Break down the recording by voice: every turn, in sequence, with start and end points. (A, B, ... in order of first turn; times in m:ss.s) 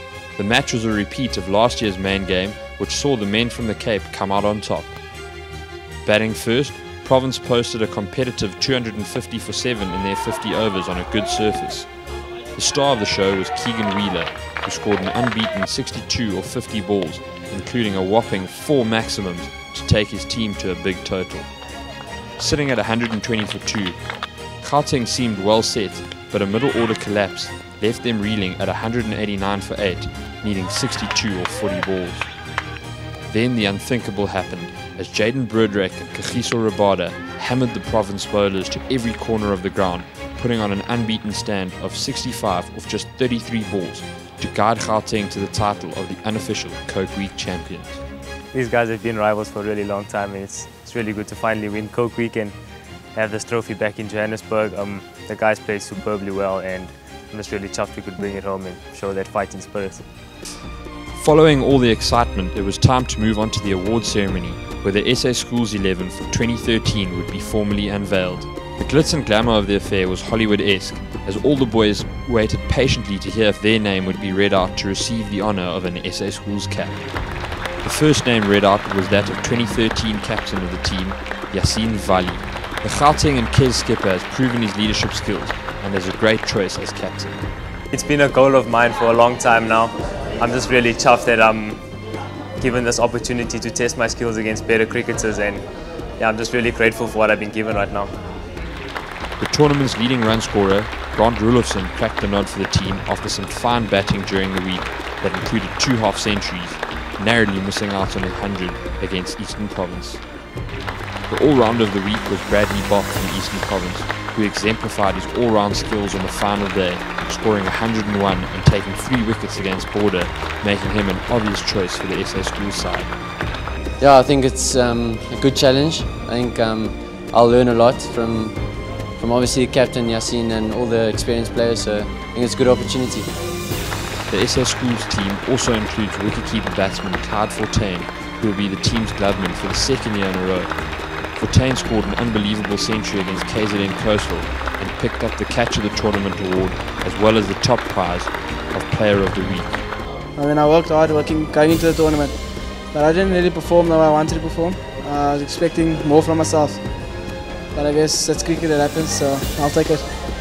0:00.3-0:05.0 A
0:06.0-0:11.9 A
0:12.5-0:21.5 A
0:22.4-0:24.0 A
0:24.6-0:32.3 A
0:33.3-0:48.0 A
0:48.5-0:52.6 B
0:53.1-1:00.1 B
1:01.1-1:27.5 A
1:27.9-1:31.8 B
1:32.6-1:35.7 B
1:36.2-1:38.1 B
1:39.4-1:50.2 A
1:51.3-2:03.2 A
2:04.0-2:13.4 C
2:14.3-2:29.9 A
2:30.3-2:40.1 D